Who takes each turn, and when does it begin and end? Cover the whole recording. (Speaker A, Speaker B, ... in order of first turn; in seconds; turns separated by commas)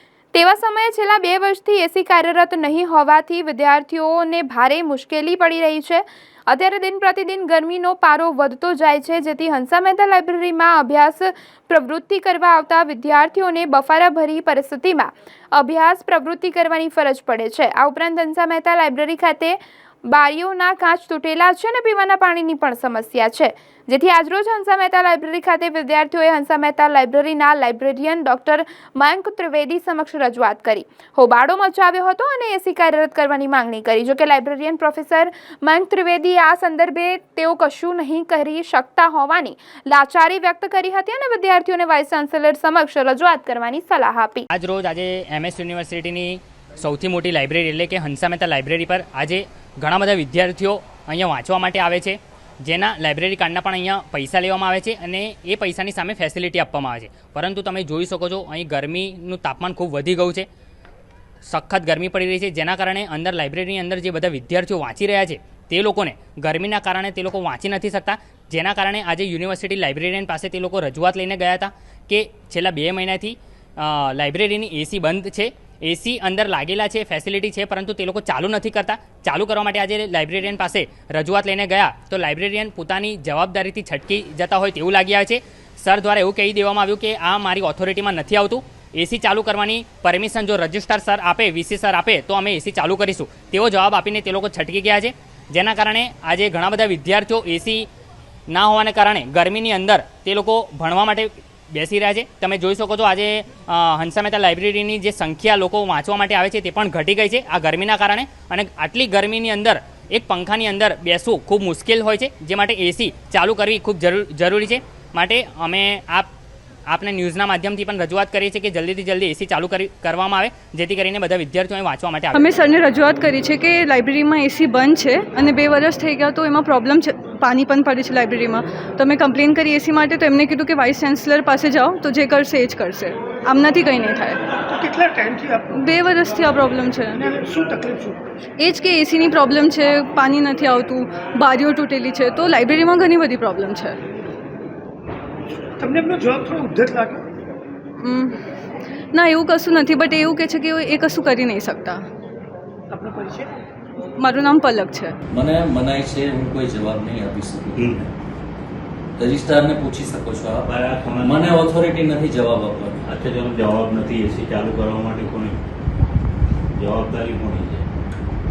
Speaker A: 0.3-44.5, Speaker B: 44.5-60.5, Speaker B: 61.5-97.8, Speaker B: 98.5-116.3, Speaker B: 116.9-122.6, Speaker C: 122.3-134.5, Speaker D: 134.7-135.8, Speaker C: 135.7-137.4, Speaker D: 137.2-138.2, Speaker C: 138.6-144.0, Speaker D: 145.8-147.2, Speaker C: 148.0-148.4, Speaker C: 149.1-152.0, Speaker D: 152.9-153.4, Speaker C: 154.2-155.1, Speaker E: 155.3-158.1, Speaker F: 157.8-158.0, Speaker E: 159.2-163.1, Speaker F: 160.6-161.5, Speaker F: 163.0-165.6, Speaker F: 166.8-167.8